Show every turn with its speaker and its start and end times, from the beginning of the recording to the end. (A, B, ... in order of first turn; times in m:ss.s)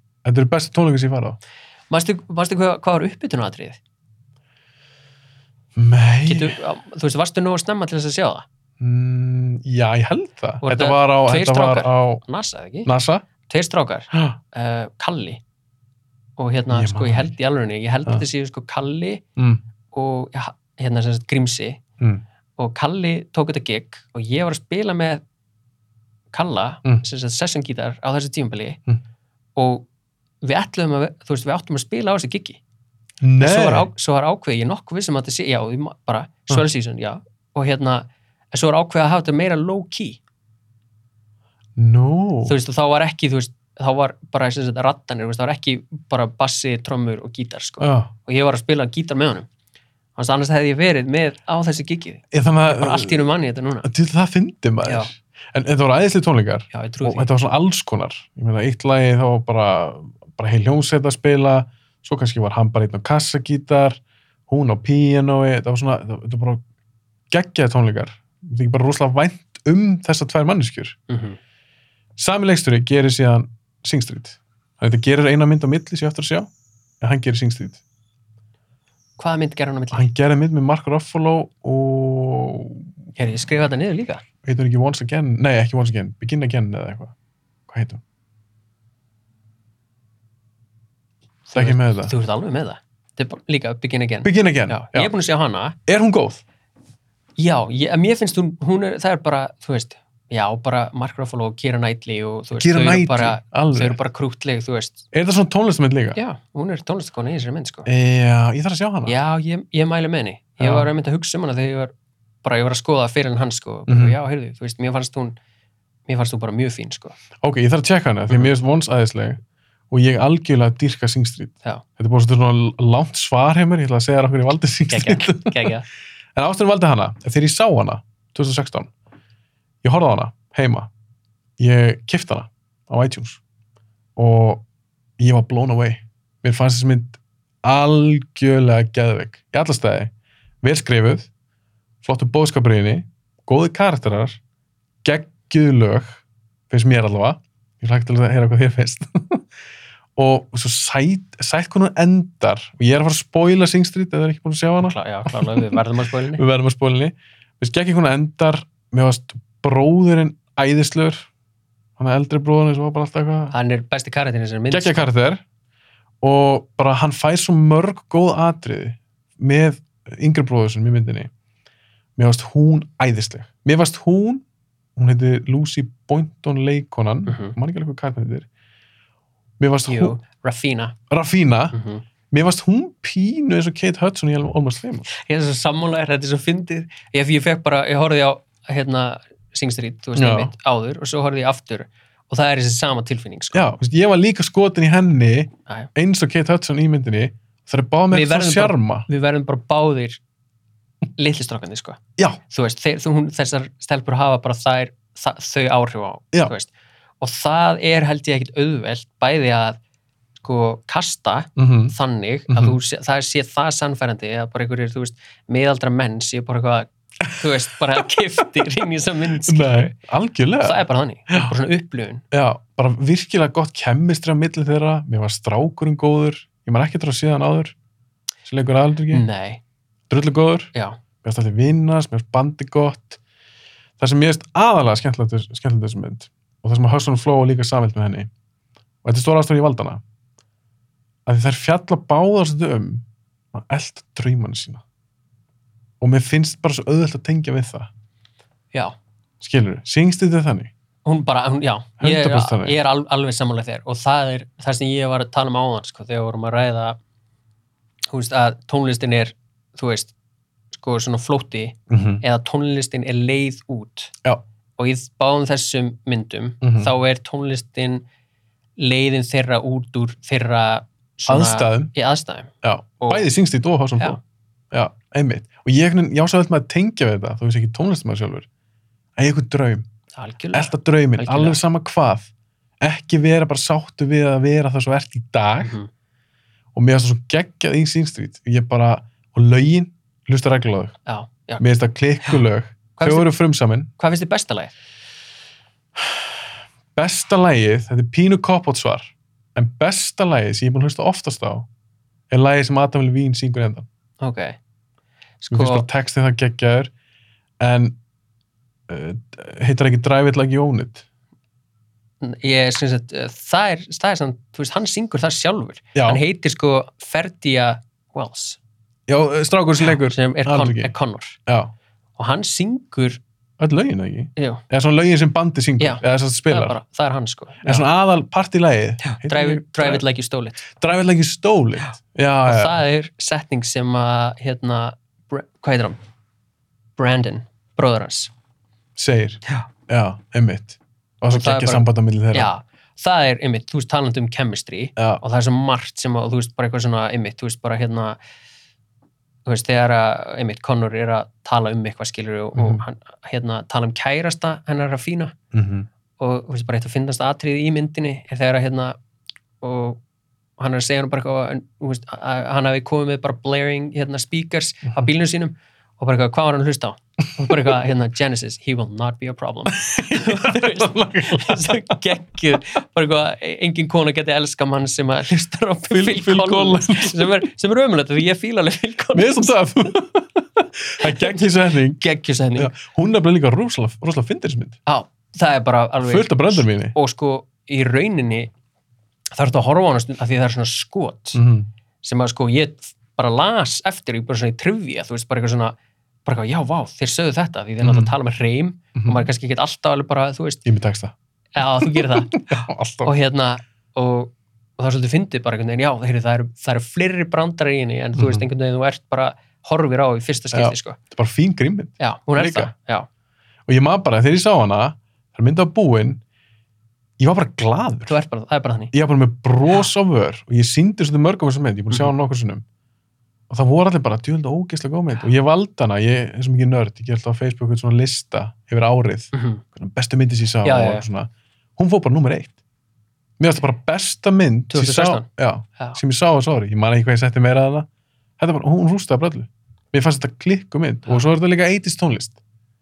0:00.2-0:01.4 A
0:01.9-0:03.8 B
0:05.7-0:06.6 A
0:06.2-0:08.4 B
0:08.8-0:12.2 A
0:10.6-0:12.9 B
0:12.8-0:13.2 A
0:13.5-0:15.4 B
0:16.4-0:19.2 B
0:16.7-0:17.3 A
0:19.4-0:19.6 A
0:19.9-0:21.8 B
0:22.6-0:25.2 B
0:26.3-0:28.8 B
0:29.6-0:29.8 B
0:30.4-0:32.6 B
0:33.2-0:33.9 A
0:33.4-0:40.2 B
0:41.8-0:42.6 A
0:42.4-0:49.5 B
0:47.8-0:48.1 A
0:50.2-0:53.9 B
0:52.3-0:53.2 A
0:53.8-1:06.6 A
0:54.8-0:55.1 B
0:56.7-0:57.3 B
1:07.3-1:11.0 A
1:11.1-1:11.4 B
1:12.2-1:16.5 A
1:17.0-1:17.8 A
1:19.2-1:20.0 B
1:19.9-1:22.9 A
1:23.2-1:24.2 B
1:24.4-1:27.1 A
1:27.7-1:28.0 A
1:31.5-1:35.8 B
1:31.5-1:32.1 A
1:34.2-1:35.1 A
1:35.9-1:36.4 A
1:37.4-1:45.0 B
1:42.5-1:44.0 A
1:45.1-1:46.2 A
1:46.1-1:47.9 B
1:47.9-1:49.2 A
1:49.0-1:55.4 B
1:50.6-1:50.9 A
1:53.9-1:54.2 A
1:56.1-1:57.2 B
1:57.4-1:59.4 A
1:59.9-2:05.7 A
2:04.9-2:05.9 B
2:06.3-2:08.9 A
2:09.8-2:10.9 A
2:11.6-2:13.4 A
2:14.2-2:14.6 A
2:15.2-2:21.3 A
2:22.0-2:24.4 A
2:25.0-2:29.4 A
2:30.2-2:35.8 A
2:34.8-2:36.4 B
2:36.3-2:41.3 A
2:42.0-2:43.5 A
2:43.5-2:45.1 B
2:44.7-2:45.4 A
2:46.2-2:51.3 A
2:52.2-2:54.4 A
2:55.0-2:58.5 A
2:57.3-2:57.5 B
2:59.6-3:00.2 A
2:59.8-3:00.9 B
3:01.1-3:01.7 A
3:01.7-3:02.0 B
3:02.3-3:05.1 A
3:05.1-3:13.7 B
3:10.2-3:10.5 A
3:13.5-3:19.1 A
3:18.1-3:20.2 B
3:21.2-3:26.7 B
3:27.2-3:29.8 B
3:30.4-3:39.9 B
3:31.6-3:31.9 A
3:32.5-3:32.8 A
3:39.4-3:41.5 A
3:40.6-3:42.2 B
3:42.3-3:47.8 A
3:48.4-3:49.2 A
3:49.1-3:49.6 B
3:50.1-3:50.7 A
3:51.2-3:53.2 A
3:54.0-3:58.3 A
3:59.0-4:00.0 A
4:01.2-4:04.8 A
4:06.0-4:07.9 A
4:09.4-4:10.7 A
4:11.0-4:17.0 B
4:12.0-4:12.8 A
4:18.1-4:20.1 B
4:20.7-4:24.1 B
4:21.9-4:22.2 A
4:24.8-4:28.0 B
4:26.6-4:26.9 A
4:28.8-4:33.3 B
4:31.3-4:31.9 A
4:32.6-4:34.2 A
4:34.7-4:38.5 A
4:39.2-4:39.8 A
4:40.2-4:41.6 B
4:40.5-4:42.3 A
4:42.8-4:45.8 A
4:45.6-4:45.9 B
4:46.7-4:51.0 A
4:51.0-4:51.6 B
4:51.6-4:53.9 A
4:53.0-4:53.3 B
4:54.0-4:54.7 B
4:56.0-4:56.3 A
4:56.9-5:01.7 A
5:02.3-5:03.8 A
5:04.2-5:04.6 B
5:05.4-5:05.8 B
5:05.5-5:06.9 A
5:07.6-5:08.0 A
5:08.9-5:11.0 A
5:12.2-5:18.6 B
5:15.9-5:16.2 A
5:19.1-5:20.9 A
5:19.9-5:21.4 B
5:21.5-5:21.7 A
5:22.2-5:23.2 B
5:23.6-5:26.8 A
5:24.4-5:24.6 B
5:25.8-5:27.9 B
5:27.6-5:30.0 A
5:29.0-5:30.6 B
5:30.7-5:32.8 A
5:32.4-5:36.0 B
5:37.0-5:38.3 B
5:39.0-5:42.5 A
5:41.3-5:48.2 B
5:45.0-5:45.2 A
5:49.4-5:55.3 B
5:52.6-5:52.8 A
5:55.5-5:55.9 A
5:56.2-5:59.0 B
5:59.6-6:00.0 B
6:00.6-6:19.5 B
6:09.8-6:12.0 A
6:15.9-6:17.3 A
6:19.1-6:22.0 A
6:21.0-6:22.7 B
6:22.6-6:24.8 A
6:24.8-6:28.5 B
6:26.0-6:26.9 A
6:29.3-6:31.4 B
6:31.3-6:31.7 A
6:32.0-6:40.6 B
6:37.8-6:38.1 A
6:39.0-6:39.3 A
6:40.6-6:43.1 A
6:41.6-6:51.0 B
6:48.2-6:48.4 A
6:50.5-6:52.7 A
6:52.0-6:53.1 B
6:53.7-6:56.2 A
6:57.2-6:58.2 A
6:58.1-6:58.9 B
6:58.9-7:02.6 A
7:03.5-7:12.5 A
7:09.3-7:09.6 B
7:10.6-7:11.0 B
7:13.4-7:17.9 A
7:14.7-7:15.3 B
7:18.4-7:22.4 A